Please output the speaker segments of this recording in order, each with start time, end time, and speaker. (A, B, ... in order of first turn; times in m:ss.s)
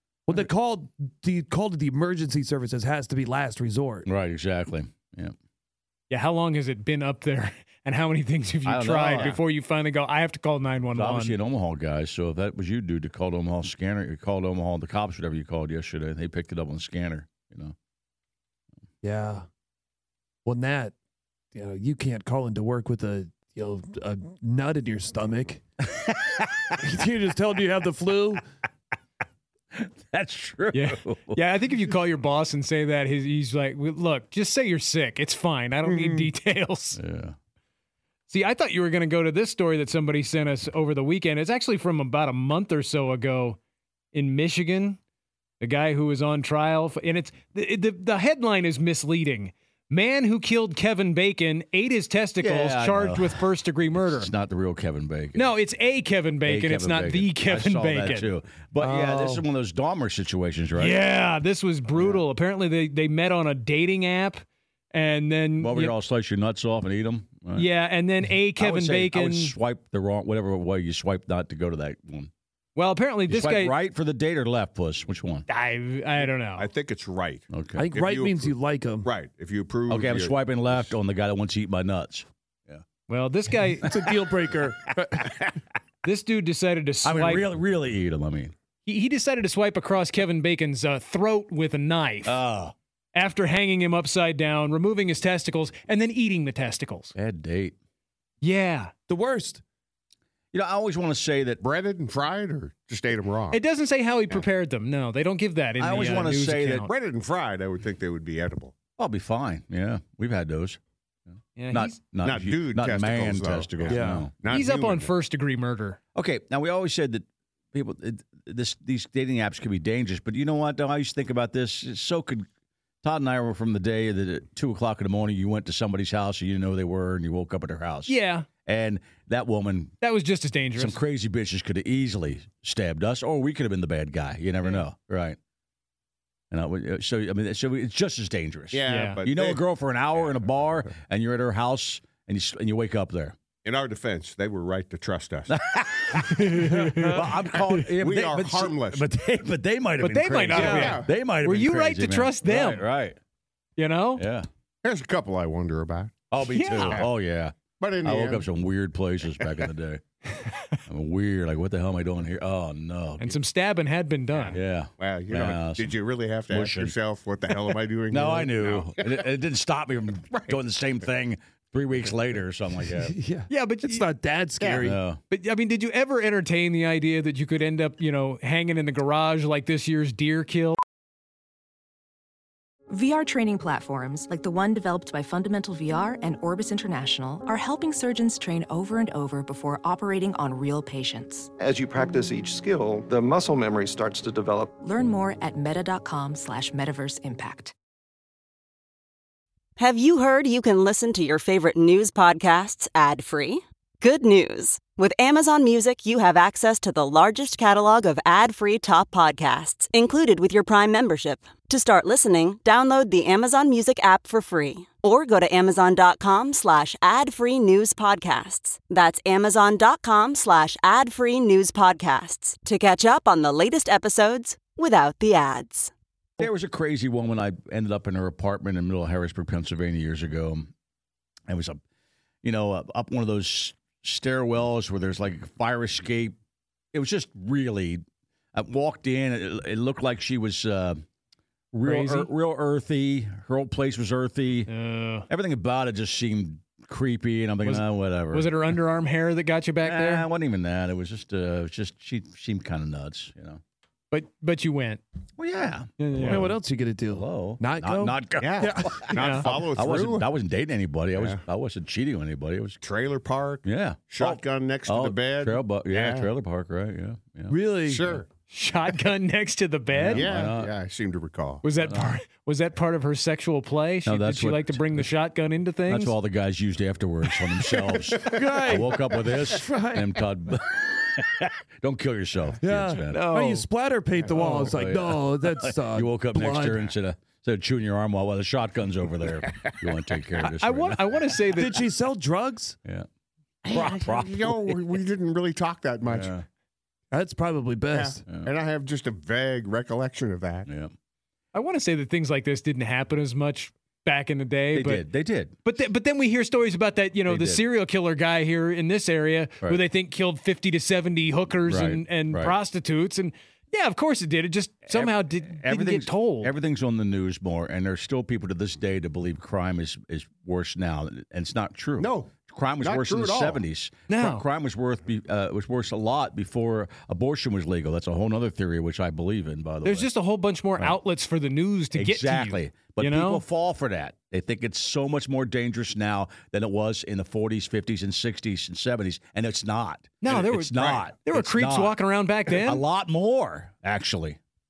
0:00.3-0:04.1 A
0:04.1-0:05.4 B
0:06.1-0:11.4 C
0:08.6-0:09.4 B
0:11.0-0:17.8 B
0:19.0-0:19.5 A
0:20.4-0:21.0 A
0:21.5-0:25.6 A
0:25.8-0:26.8 B
0:26.8-0:28.4 A
0:29.7-0:31.4 B
0:30.7-0:37.0 C
0:35.8-0:36.3 A
0:37.0-0:37.4 B
0:38.3-0:43.6 C
0:44.1-0:45.0 C
0:45.6-0:54.3 C
0:52.4-0:53.5 B
0:54.0-0:55.5 B
0:55.4-0:58.3 C
0:56.5-1:01.0 B
0:58.8-0:59.4 A
1:00.8-1:05.9 C
1:05.6-1:07.7 B
1:07.6-1:09.5 C
1:08.6-1:12.3 B
1:12.8-1:13.8 C
1:13.3-1:15.5 B
1:15.5-1:16.7 C
1:16.6-1:20.9 D
1:17.5-1:17.9 B
1:17.8-1:19.1 A
1:19.9-1:22.8 B
1:23.1-1:23.9 C
1:23.8-1:25.4 A
1:26.0-1:27.5 C
1:27.0-1:28.5 B
1:28.9-1:32.4 C
1:32.3-1:32.7 B
1:33.2-1:37.1 C
1:37.2-1:37.8 B
1:38.4-1:38.9 C
1:39.1-1:39.6 A
1:40.5-1:41.6 B
1:41.6-1:43.6 D
1:43.5-1:46.9 C
1:45.8-1:46.9 B
1:46.8-1:48.7 D
1:49.0-1:50.8 B
1:51.6-1:52.0 C
1:51.7-1:54.3 B
1:52.2-1:55.1 D
1:53.9-1:54.3 A
1:54.5-1:56.0 C
1:56.2-2:02.5 B
2:03.0-2:08.1 B
2:08.1-2:08.5 C
2:08.6-2:09.9 B
2:10.0-2:11.0 C
2:10.8-2:15.4 B
2:16.5-2:23.4 B
2:18.7-2:19.6 D
2:18.9-2:19.2 C
2:23.6-2:25.5 D
2:25.5-2:33.2 B
2:26.3-2:27.2 C
2:26.6-2:27.3 A
2:28.0-2:29.0 D
2:30.0-2:32.8 C
2:30.5-2:31.1 D
2:33.8-2:34.2 C
2:34.2-2:34.5 B
2:34.8-2:36.2 D
2:36.3-2:40.0 B
2:36.5-2:37.0 C
2:37.8-2:38.4 D
2:40.4-2:40.8 C
2:40.9-2:43.4 B
2:43.2-2:44.6 C
2:44.5-2:46.0 B
2:45.0-2:49.2 D
2:46.5-2:46.9 B
2:48.1-2:53.2 B
2:53.0-2:55.0 A
2:53.5-2:54.1 C
2:54.6-2:54.9 D
2:54.8-2:55.2 B
2:55.3-3:00.8 C
3:02.9-3:11.5 E
3:11.6-3:14.7 F
3:14.8-3:17.7 E
3:19.8-3:45.9 G
3:46.4-3:50.7 B
3:51.5-3:51.8 B
3:52.4-3:56.4 B
3:56.9-4:01.0 B
4:01.7-4:04.7 B
4:01.8-4:02.3 C
4:04.7-4:05.3 C
4:05.3-4:08.6 B
4:07.6-4:10.2 C
4:09.8-4:13.6 B
4:14.1-4:15.0 C
4:15.4-4:16.6 B
4:16.0-4:16.5 C
4:16.2-4:19.1 A
4:17.1-4:22.8 B
4:18.4-4:20.3 D
4:19.1-4:19.4 C
4:21.2-4:21.4 D
4:22.8-4:26.3 D
4:23.6-4:28.2 B
4:27.5-4:28.1 A
4:27.9-4:28.3 D
4:28.5-4:30.3 C
4:29.9-4:30.7 B
4:30.1-4:31.6 D
4:31.6-4:36.1 C
4:31.8-4:32.2 B
4:34.1-4:35.1 B
4:35.9-4:43.3 B
4:38.2-4:40.2 A
4:42.6-4:46.9 A
4:43.1-4:43.6 C
4:44.3-4:51.2 B
4:50.4-4:51.8 C
4:51.6-4:52.8 A
4:53.6-4:56.3 D
4:53.7-4:54.8 B
4:56.1-4:56.5 B
4:57.1-4:58.2 A
4:57.9-5:00.7 D
5:00.7-5:00.9 B
5:01.5-5:05.0 C
5:04.8-5:05.6 B
5:05.6-5:16.5 C
5:07.3-5:07.6 B
5:11.7-5:12.6 B
5:14.9-5:30.1 B
5:22.0-5:23.6 D
5:24.1-5:24.4 C
5:29.8-5:33.4 C
5:31.9-5:44.4 B
5:40.2-5:42.8 C